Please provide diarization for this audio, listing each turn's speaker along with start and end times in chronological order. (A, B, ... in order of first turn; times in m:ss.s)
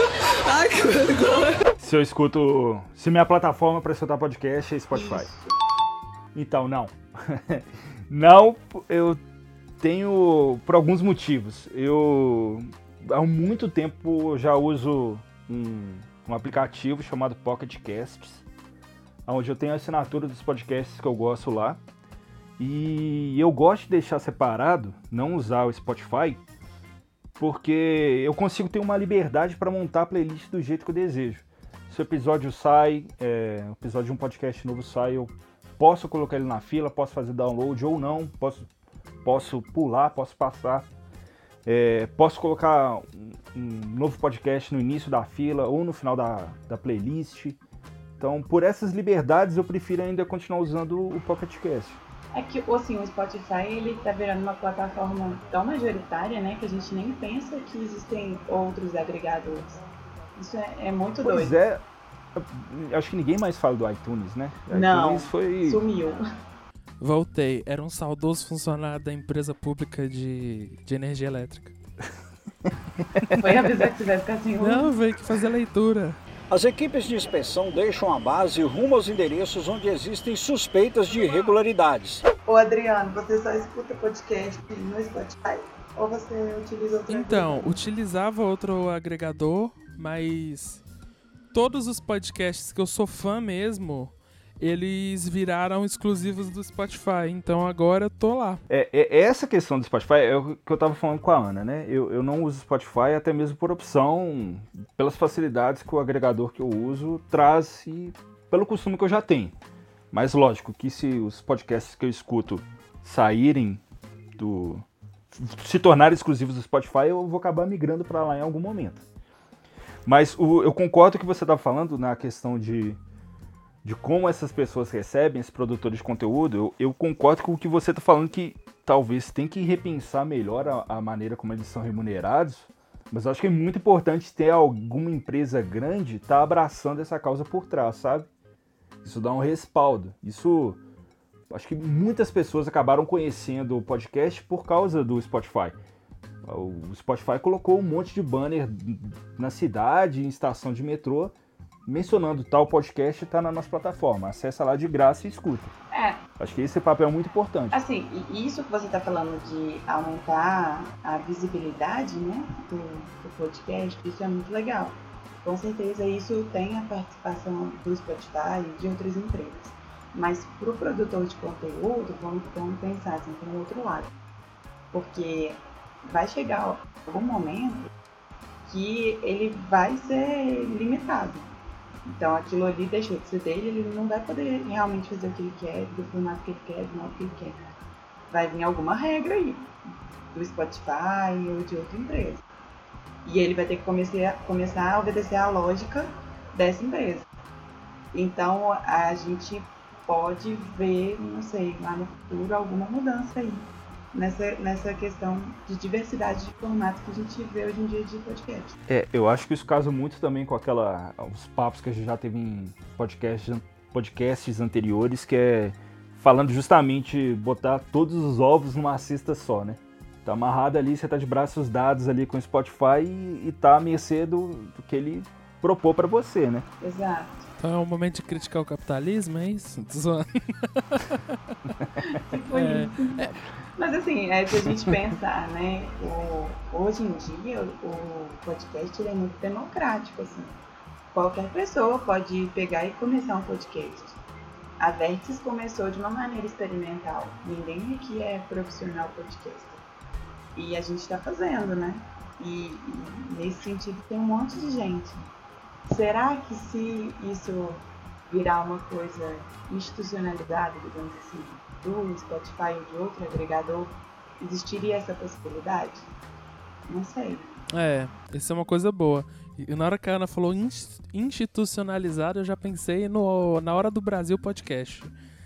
0:01.8-0:05.3 A
0:04.9-0:05.5 B
0:06.3-0:09.2 A
0:09.8-0:18.5 A
0:19.3-0:21.8 A
0:22.6-0:26.4 A
0:27.4-0:38.7 A
0:39.2-0:40.9 A
0:41.7-0:47.6 A
0:48.2-0:52.0 A
0:52.3-0:59.8 B
1:00.4-1:01.6 B
1:01.2-1:01.8 A
1:02.4-1:05.8 A
1:04.7-1:06.2 B
1:07.0-1:11.7 C
1:13.0-1:13.4 A
1:13.4-1:15.0 B
1:14.6-1:16.2 C
1:16.5-1:22.2 D
1:22.4-1:27.8 B
1:27.1-1:30.8 C
1:31.5-1:38.6 C
1:38.7-1:49.5 A
1:50.1-1:53.8 A
1:54.4-1:59.0 A
2:00.1-2:03.0 A
2:03.8-2:18.3 A
2:19.0-2:20.8 A
2:21.5-2:25.8 A
2:26.4-2:31.3 A
2:31.9-2:35.7 A
2:35.9-2:36.2 B
2:36.4-2:37.8 A
2:37.7-2:54.1 B
2:54.9-2:57.9 B
2:58.7-3:01.5 B
3:02.0-3:07.6 B
3:08.3-3:09.7 B
3:10.3-3:12.4 B
3:13.2-3:17.3 B
3:18.1-3:28.8 B
3:28.9-3:46.7 A
3:46.8-3:47.5 B
3:47.6-3:51.6 C
3:52.0-4:00.5 B
3:52.5-3:53.4 C
3:54.5-3:55.0 C
4:01.1-4:04.2 B
4:04.8-4:09.8 B
4:10.6-4:15.2 B
4:15.9-4:26.1 B
4:26.9-4:27.5 B
4:27.7-4:35.1 C